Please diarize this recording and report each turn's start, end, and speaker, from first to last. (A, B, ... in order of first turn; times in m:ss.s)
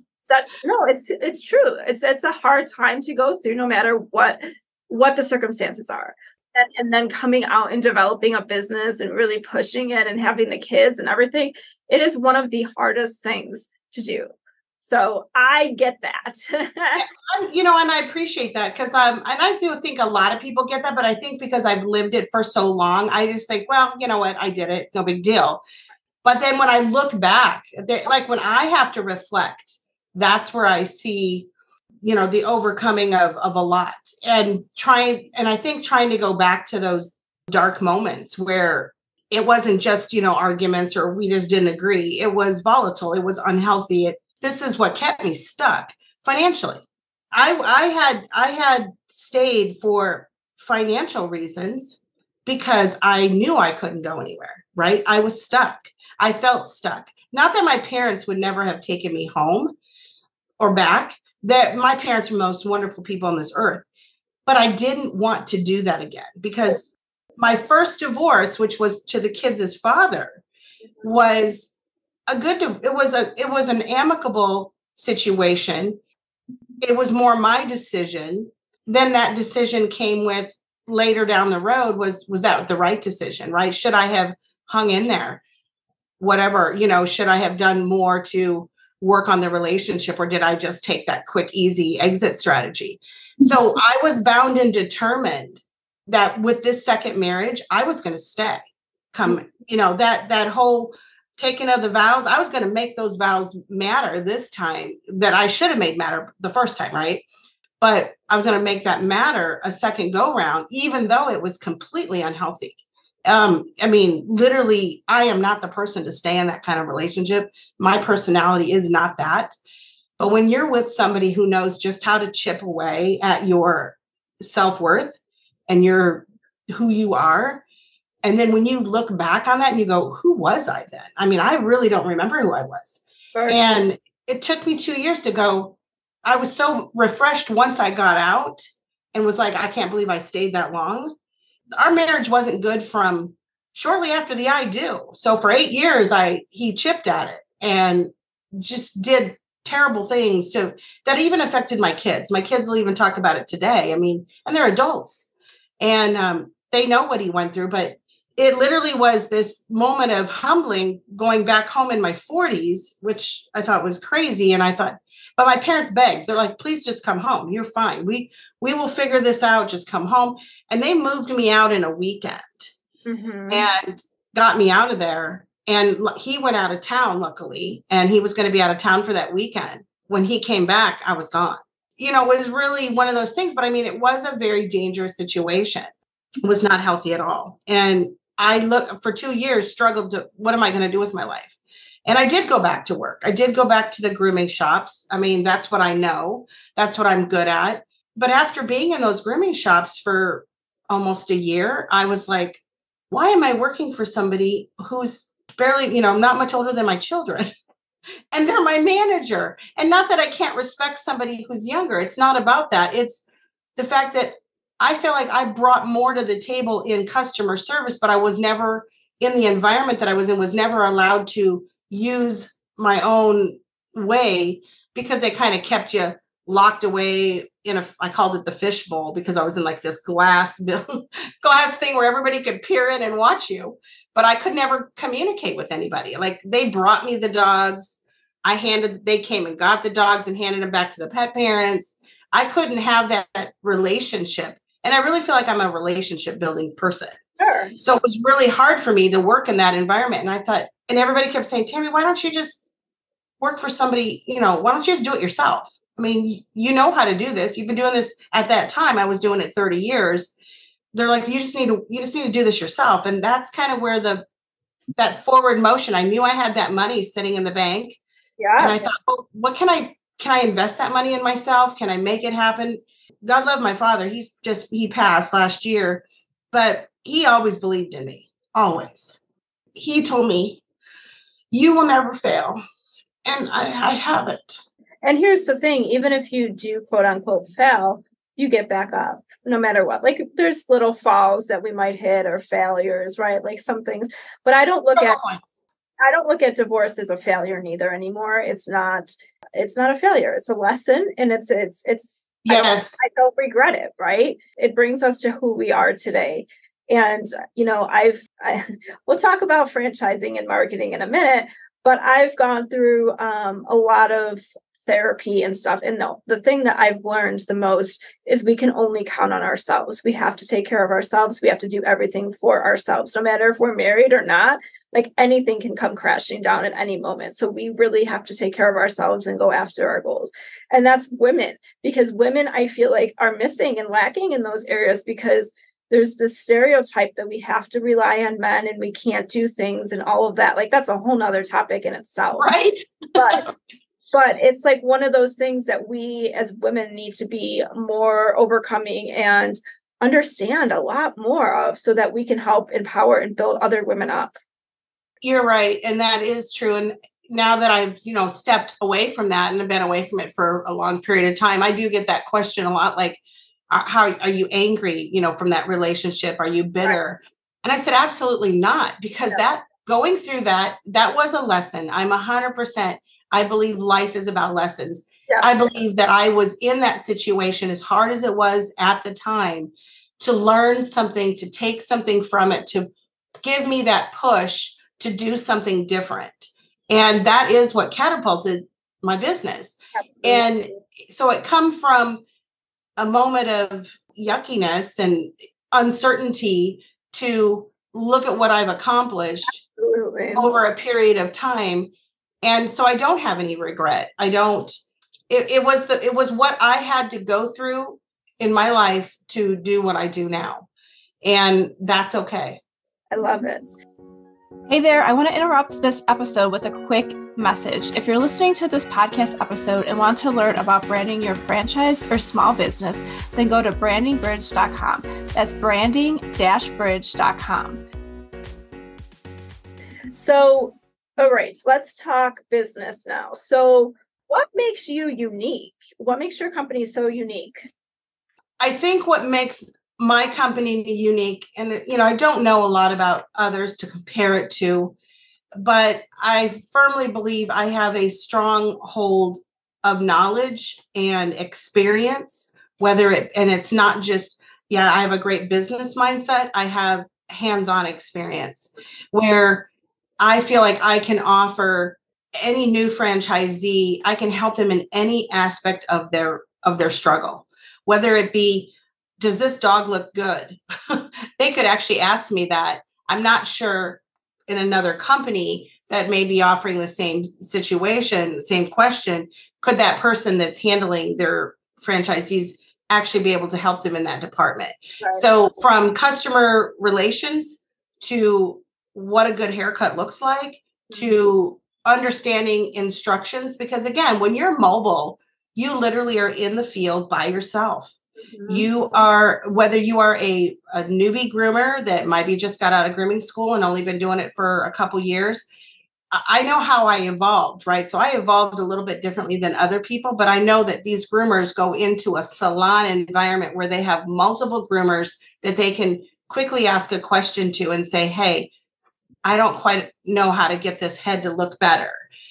0:00.2-0:14.3 A
0:14.8-0:17.0 A
0:17.0-0:25.6 B
0:26.2-0:31.5 B
0:32.0-0:59.8 B
1:00.6-1:03.8 B
1:04.4-1:10.4 B
1:11.0-1:11.7 B
1:12.3-1:16.0 B
1:16.8-1:25.4 B
1:26.2-1:38.6 B
1:39.1-1:47.2 B
1:47.8-1:59.5 B
2:00.2-2:07.6 B
2:08.2-2:21.1 B
2:13.3-2:13.8 A
2:21.8-2:52.7 B
2:53.0-2:53.7 A
2:53.5-3:05.9 B
3:06.4-3:27.4 B
3:28.3-3:33.2 B
3:33.8-4:07.2 B
4:07.4-4:07.7 A
4:07.8-4:12.7 B
4:13.4-4:20.3 B
4:20.9-4:24.2 B
4:25.0-4:28.0 B
4:28.4-4:28.8 A
4:28.6-4:39.2 B
4:39.7-4:40.6 B
4:41.5-4:42.6 B
4:43.2-4:44.6 B
4:45.0-4:55.2 A
4:55.0-4:55.6 B
4:56.0-5:42.5 A
5:02.4-5:03.0 B
5:42.4-5:43.5 B
5:43.2-5:43.4 A
5:44.1-5:54.4 A
5:55.2-6:22.9 B
6:15.3-6:15.7 A
6:23.4-6:32.2 B
6:30.0-6:30.8 A
6:33.0-6:39.6 B
6:39.5-6:40.5 A
6:40.3-6:41.9 B
6:42.4-6:44.7 B
6:45.3-6:50.7 B
6:51.2-6:52.6 B
6:53.1-6:53.8 A
6:54.7-7:07.8 A
7:10.1-7:17.6 A
7:18.6-7:24.9 B
7:25.6-7:39.7 B
7:40.2-8:17.9 B
8:05.0-8:05.2 A
8:18.3-8:18.7 A
8:18.5-8:25.4 B
8:26.1-8:38.5 B
8:39.2-8:42.0 B